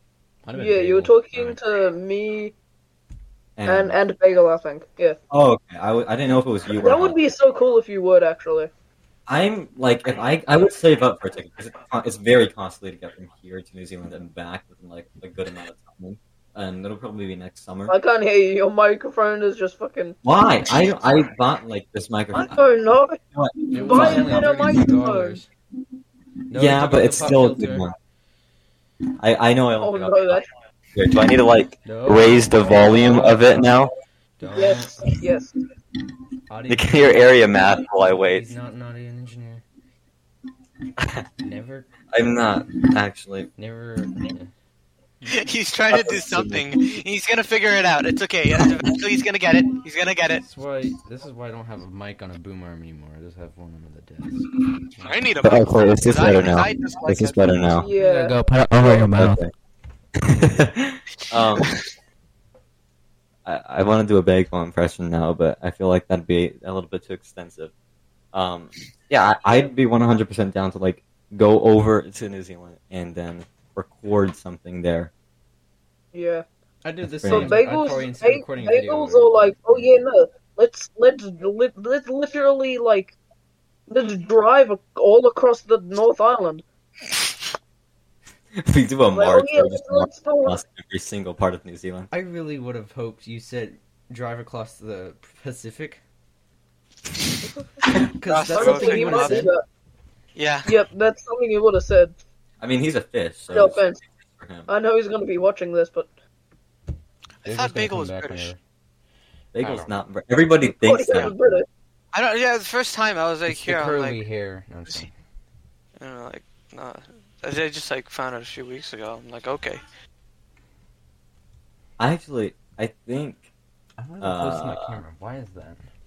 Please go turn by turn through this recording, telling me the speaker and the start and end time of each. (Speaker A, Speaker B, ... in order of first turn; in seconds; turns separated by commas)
Speaker A: 0.4-1.6, Speaker B: 0.6-2.5, Speaker C: 3.6-4.0, Speaker B: 3.7-5.2, Speaker C: 5.3-7.2, Speaker B: 6.8-8.7, Speaker C: 9.3-17.9, Speaker B: 17.9-20.2, Speaker C: 20.2-22.7, Speaker B: 22.3-23.2, Speaker C: 23.2-24.8, Speaker B: 23.7-25.4, Speaker A: 23.7-25.5, Speaker A: 26.5-27.9, Speaker C: 26.5-27.9, Speaker C: 29.2-30.4, Speaker B: 29.8-30.5, Speaker C: 30.9-33.9, Speaker A: 31.9-33.9, Speaker A: 34.4-35.1, Speaker B: 34.5-35.5, Speaker C: 34.7-35.1, Speaker A: 36.5-39.6, Speaker C: 36.7-38.5, Speaker C: 41.0-41.3, Speaker A: 41.4-41.9, Speaker C: 42.1-43.5, Speaker A: 43.6-44.5, Speaker A: 45.2-45.5, Speaker D: 45.3-50.4, Speaker C: 45.9-46.7, Speaker A: 50.4-55.3, Speaker D: 55.0-57.7, Speaker C: 55.4-57.9, Speaker B: 57.8-58.4, Speaker A: 57.9-59.5, Speaker C: 58.8-59.5, Speaker C: 60.2-61.7, Speaker D: 61.3-61.7, Speaker C: 63.5-67.7, Speaker C: 68.3-75.1, Speaker B: 76.1-76.4, Speaker A: 76.8-79.9, Speaker C: 77.0-77.6, Speaker B: 77.3-83.2, Speaker B: 83.9-86.6, Speaker C: 88.6-92.1, Speaker B: 89.1-90.6, Speaker A: 92.1-96.0, Speaker A: 98.2-99.5, Speaker D: 98.3-99.5, Speaker B: 98.5-99.6, Speaker D: 100.4-100.7, Speaker B: 100.7-102.2, Speaker C: 102.6-104.7, Speaker B: 103.5-104.0, Speaker B: 104.7-106.1, Speaker D: 107.4-108.5, Speaker A: 107.5-108.6, Speaker C: 109.5-111.4, Speaker A: 109.6-110.0, Speaker B: 110.6-111.7, Speaker D: 112.1-114.2, Speaker A: 113.5-115.1, Speaker D: 116.0-119.8, Speaker C: 122.0-123.5, Speaker A: 124.0-125.8, Speaker C: 124.2-125.0